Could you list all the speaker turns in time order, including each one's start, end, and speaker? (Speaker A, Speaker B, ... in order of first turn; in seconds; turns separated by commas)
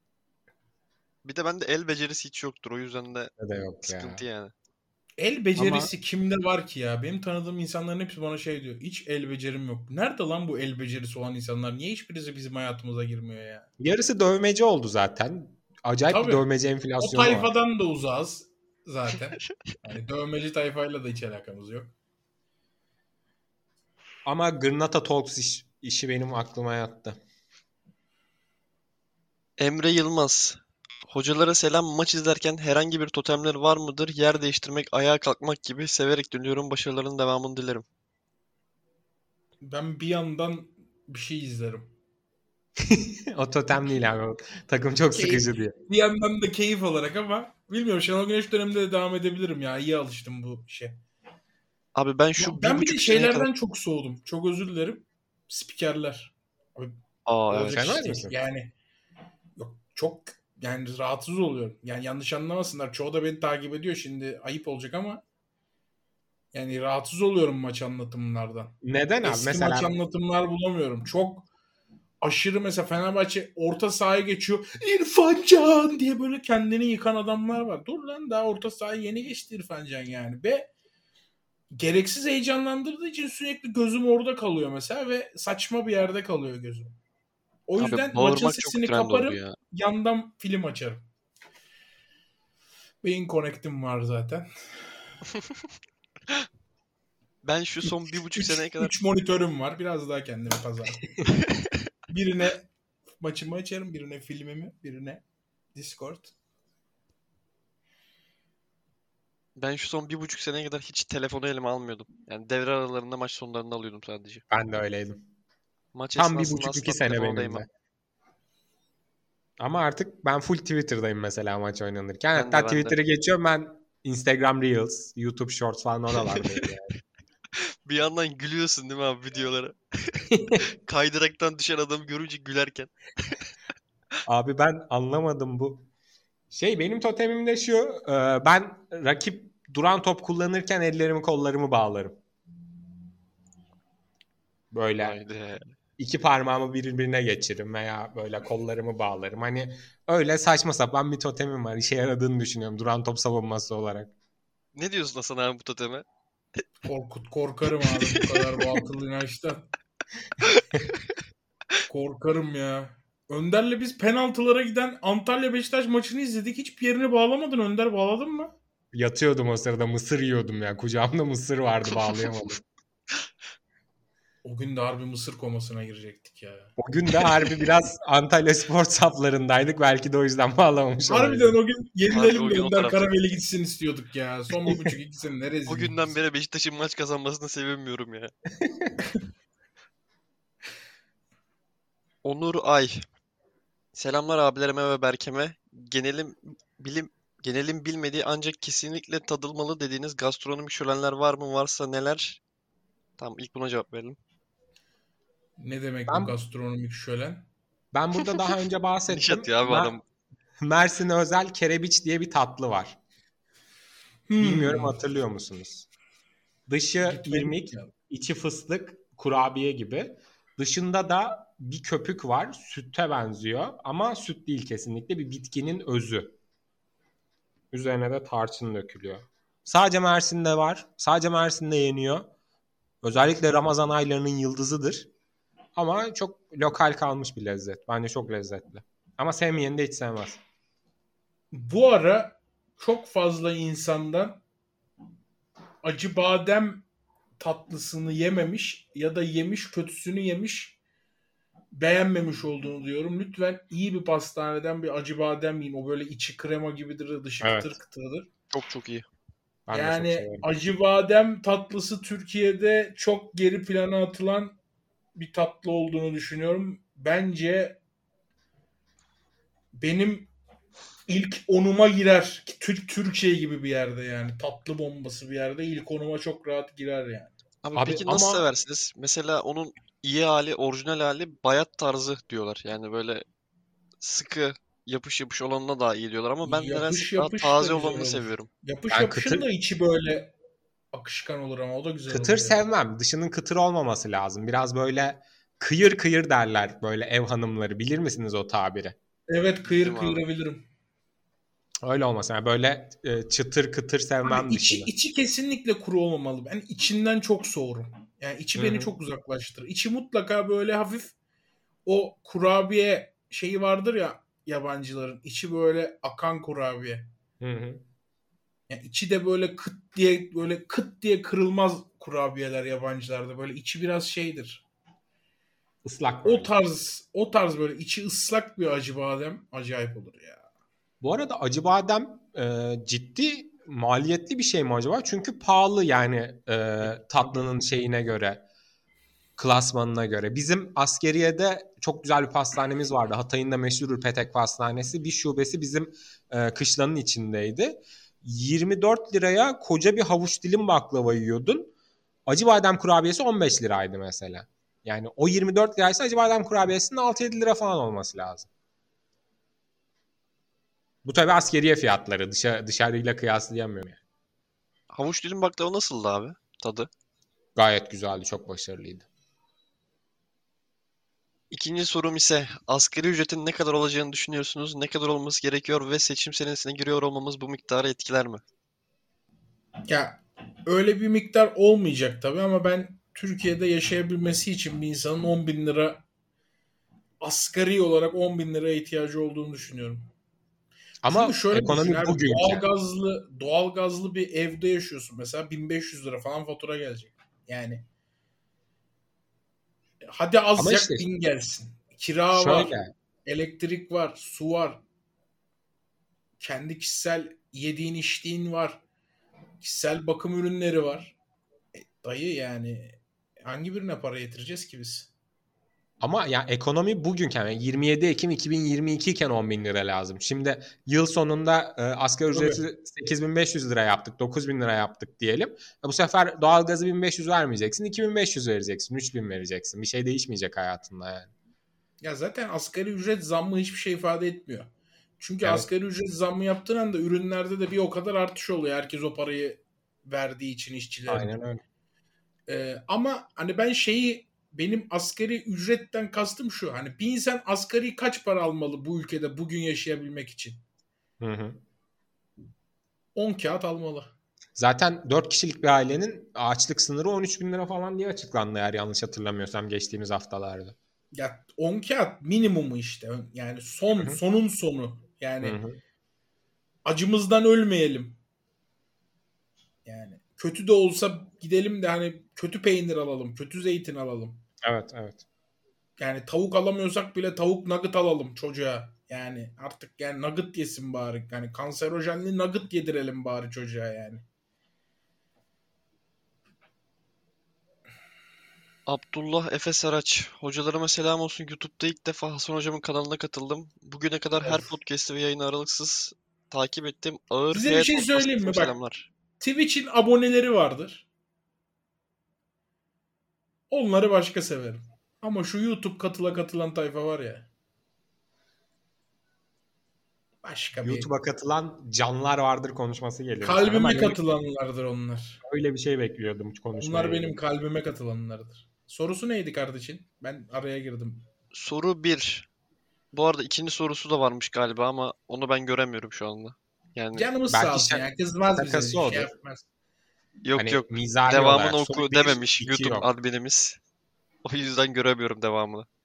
Speaker A: 1.2-3.3, Speaker B: 3.4-4.2, Speaker A: 3.9-4.5, Speaker C: 5.2-13.7, Speaker B: 5.6-5.9, Speaker B: 13.8-17.5, Speaker C: 16.1-16.5, Speaker C: 17.0-21.9, Speaker B: 24.3-27.2, Speaker A: 29.6-37.9, Speaker C: 39.6-41.9, Speaker B: 42.8-45.7, Speaker C: 45.1-51.0, Speaker A: 52.0-53.5, Speaker C: 52.4-57.0, Speaker A: 57.3-57.9, Speaker C: 57.5-58.7, Speaker B: 57.6-58.3, Speaker C: 59.6-65.2, Speaker C: 66.5-71.5, Speaker B: 68.8-69.9, Speaker C: 72.2-80.7, Speaker C: 81.8-87.0, Speaker C: 87.7-91.0, Speaker A: 87.8-89.6, Speaker C: 93.0-94.5, Speaker A: 97.4-99.0, Speaker C: 98.3-101.2, Speaker A: 101.5-101.7, Speaker C: 102.1-102.7, Speaker C: 103.2-105.2, Speaker C: 105.8-106.3, Speaker A: 109.6-114.4, Speaker B: 114.5-115.2, Speaker A: 115.9-117.7, Speaker B: 116.2-117.7, Speaker B: 119.6-126.9, Speaker A: 122.3-123.0, Speaker A: 127.9-133.4, Speaker B: 130.3-130.6, Speaker B: 134.3-135.9, Speaker B: 136.5-142.2, Speaker B: 144.7-145.2, Speaker A: 145.0-145.7, Speaker B: 146.0-154.1, Speaker A: 154.8-156.1, Speaker C: 156.8-159.7, Speaker A: 158.1-158.6, Speaker C: 161.9-168.5, Speaker B: 168.9-172.6, Speaker C: 174.4-176.7, Speaker B: 176.8-181.6, Speaker C: 181.1-186.2, Speaker A: 182.1-183.1, Speaker B: 184.7-184.9, Speaker A: 185.7-188.3, Speaker B: 188.6-189.0, Speaker A: 192.2-193.0, Speaker A: 193.9-202.4, Speaker A: 203.2-204.2, Speaker C: 205.6-207.4, Speaker B: 206.1-206.3, Speaker B: 207.9-209.9, Speaker A: 209.1-210.0, Speaker B: 210.6-213.0, Speaker C: 214.3-215.0, Speaker B: 214.4-215.9, Speaker B: 216.7-226.4, Speaker C: 217.0-217.9, Speaker B: 227.7-232.3, Speaker B: 233.0-235.1, Speaker B: 235.8-240.4, Speaker C: 241.5-244.4, Speaker C: 245.8-246.8, Speaker C: 247.4-250.8, Speaker C: 251.7-258.3, Speaker B: 257.4-257.8, Speaker A: 258.5-259.1, Speaker B: 259.7-260.4, Speaker C: 259.7-264.6, Speaker C: 265.1-267.8, Speaker C: 269.8-270.3, Speaker C: 271.1-278.4, Speaker A: 277.6-283.2, Speaker A: 284.0-288.5, Speaker C: 286.5-290.3, Speaker B: 288.9-289.5, Speaker C: 290.9-292.6, Speaker B: 292.1-299.0, Speaker C: 299.3-300.7, Speaker A: 299.7-300.2, Speaker B: 301.8-304.9, Speaker C: 304.2-311.1, Speaker B: 308.6-308.9, Speaker C: 311.9-317.1, Speaker B: 317.4-317.8, Speaker C: 318.7-324.6, Speaker B: 325.8-326.5, Speaker C: 326.2-330.4, Speaker B: 331.0-338.4, Speaker C: 336.9-337.6, Speaker B: 339.4-351.7, Speaker B: 352.3-358.5, Speaker B: 361.0-364.0, Speaker A: 364.9-366.9, Speaker B: 367.6-369.1, Speaker A: 371.5-378.4, Speaker C: 379.9-386.0, Speaker C: 387.2-390.1, Speaker B: 391.0-392.7, Speaker C: 391.1-397.8, Speaker C: 400.0-404.8, Speaker B: 400.6-401.1, Speaker B: 402.3-402.9, Speaker C: 406.4-408.8, Speaker C: 409.6-411.2, Speaker C: 411.7-415.1, Speaker B: 416.0-431.3, Speaker C: 422.3-422.6, Speaker C: 432.0-441.3, Speaker B: 435.4-435.7, Speaker B: 441.1-441.6, Speaker C: 442.5-450.6, Speaker B: 451.2-451.6, Speaker C: 453.1-454.1, Speaker B: 454.6-460.8, Speaker C: 461.1-465.6, Speaker B: 464.0-464.2, Speaker B: 465.4-465.8, Speaker C: 466.9-468.2, Speaker C: 469.9-474.4, Speaker B: 474.6-475.2, Speaker C: 476.0-484.2, Speaker A: 488.9-499.1, Speaker C: 494.4-494.7, Speaker C: 497.5-498.8, Speaker C: 499.4-501.1, Speaker C: 503.7-507.5, Speaker C: 510.4-511.1, Speaker B: 510.8-514.2, Speaker C: 513.4-515.4, Speaker B: 515.4-517.4, Speaker C: 516.8-521.2, Speaker A: 521.5-522.5, Speaker A: 523.1-527.3, Speaker C: 527.1-529.7, Speaker B: 527.5-529.3, Speaker A: 530.4-533.8, Speaker B: 530.6-533.1, Speaker A: 534.4-535.9